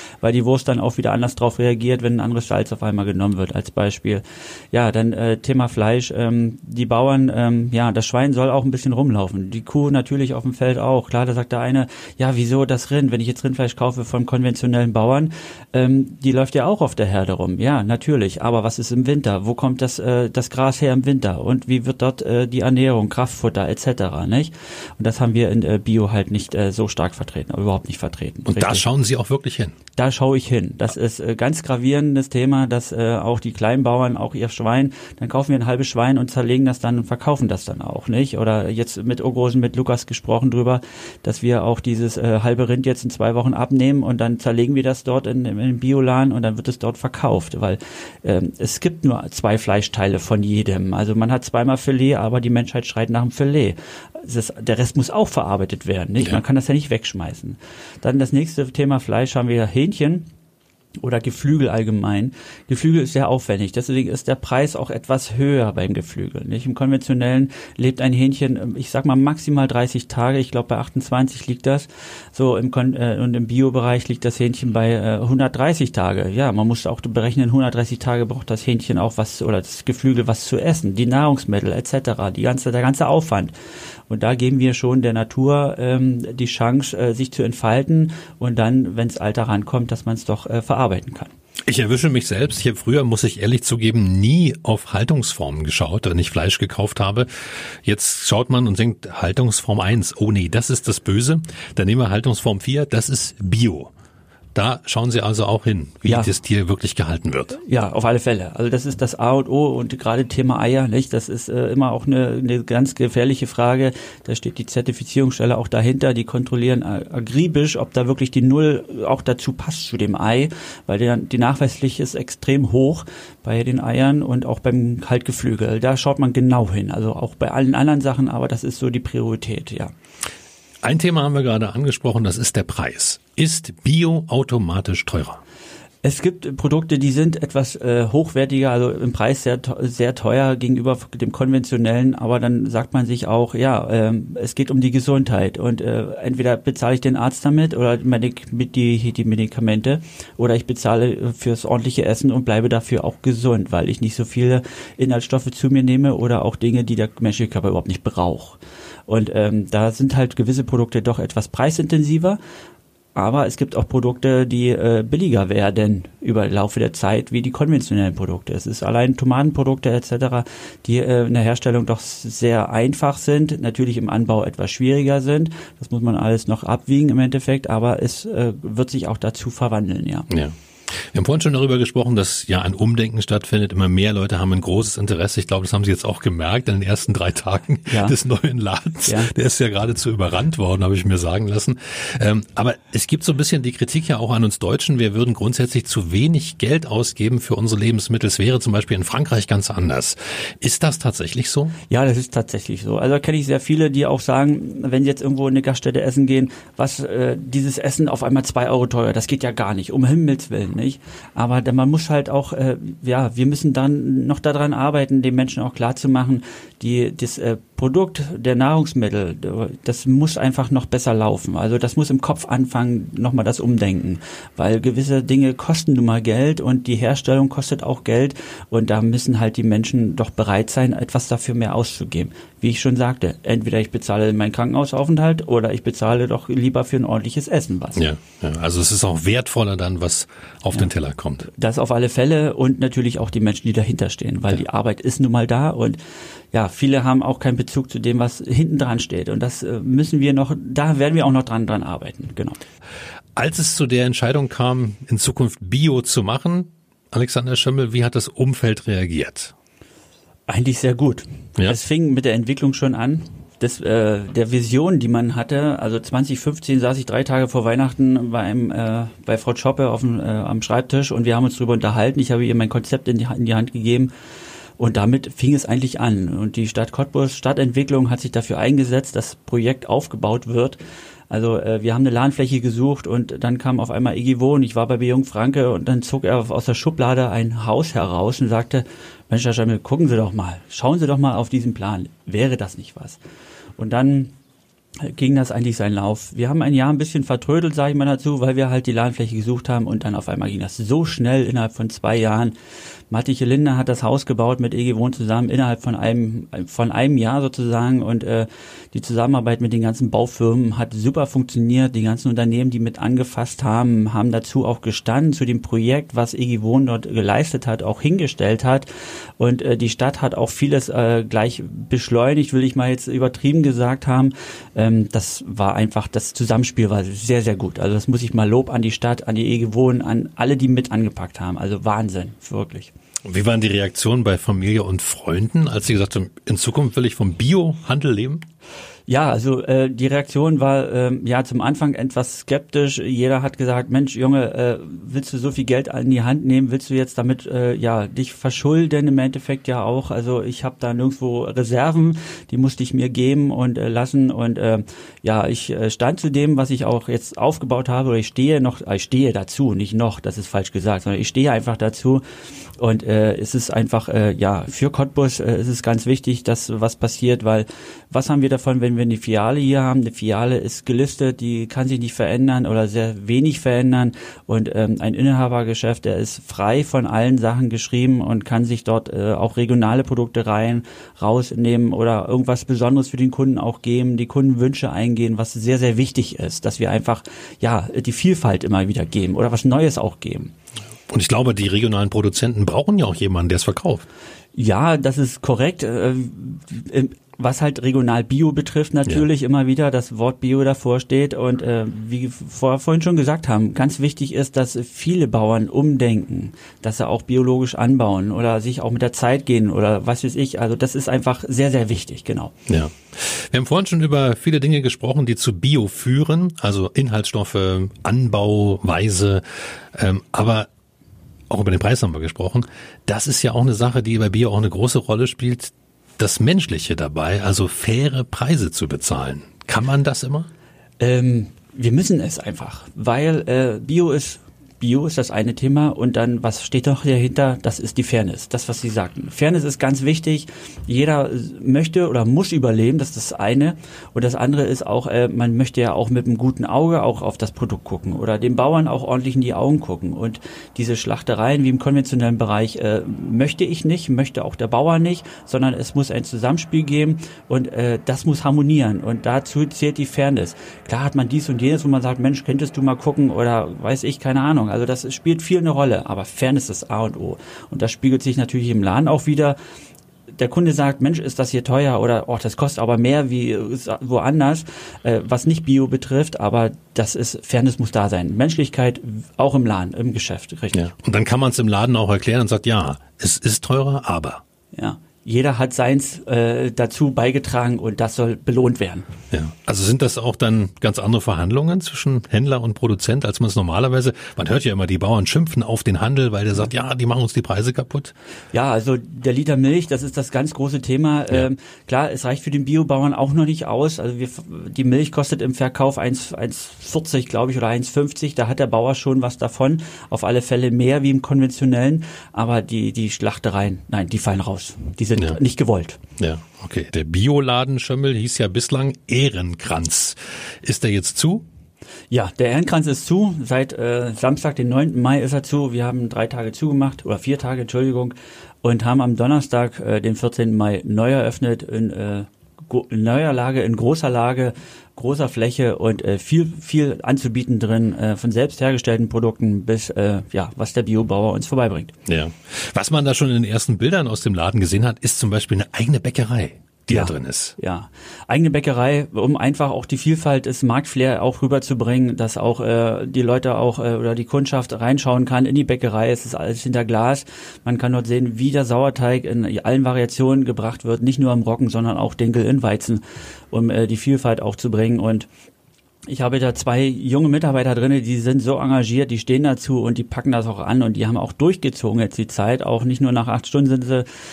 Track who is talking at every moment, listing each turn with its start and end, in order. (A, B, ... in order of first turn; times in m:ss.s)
0:00.2-0:28.8 A
0:28.5-0:29.8 B
0:30.0-1:00.3 A
1:01.0-1:23.5 A
1:24.1-1:31.3 A
1:31.6-1:43.9 B
1:44.5-1:47.6 B
1:46.1-1:46.3 A
1:47.6-2:09.9 A
2:10.8-2:15.4 B
2:16.0-2:42.4 A
2:43.1-3:00.3 A
3:00.3-3:21.8 B
3:07.9-3:08.1 A
3:09.0-3:09.3 A
3:21.9-3:58.0 A
3:58.0-4:01.5 B
4:01.5-4:06.0 A
4:06.5-4:12.6 A
4:13.4-4:19.5 B
4:20.5-4:34.1 A
4:34.8-4:40.8 A
4:41.3-4:53.2 A
4:53.8-4:54.3 A
4:55.0-5:02.6 A
5:03.1-5:18.9 A
5:19.4-5:32.9 A
5:33.2-5:38.4 B
5:39.1-6:02.2 A
6:02.8-6:30.5 A
6:31.1-6:34.1 B
6:34.6-6:52.5 A
6:52.7-7:00.7 B
7:01.5-7:10.5 B
7:11.0-7:49.6 A
7:50.4-8:00.9 A
8:00.7-8:04.4 B
8:04.7-8:09.1 A
8:09.3-8:18.1 B
8:18.5-8:36.0 A
8:36.2-8:41.5 B
8:42.1-9:01.9 A
9:02.0-9:07.6 B
9:06.9-9:25.3 A
9:26.1-9:34.1 A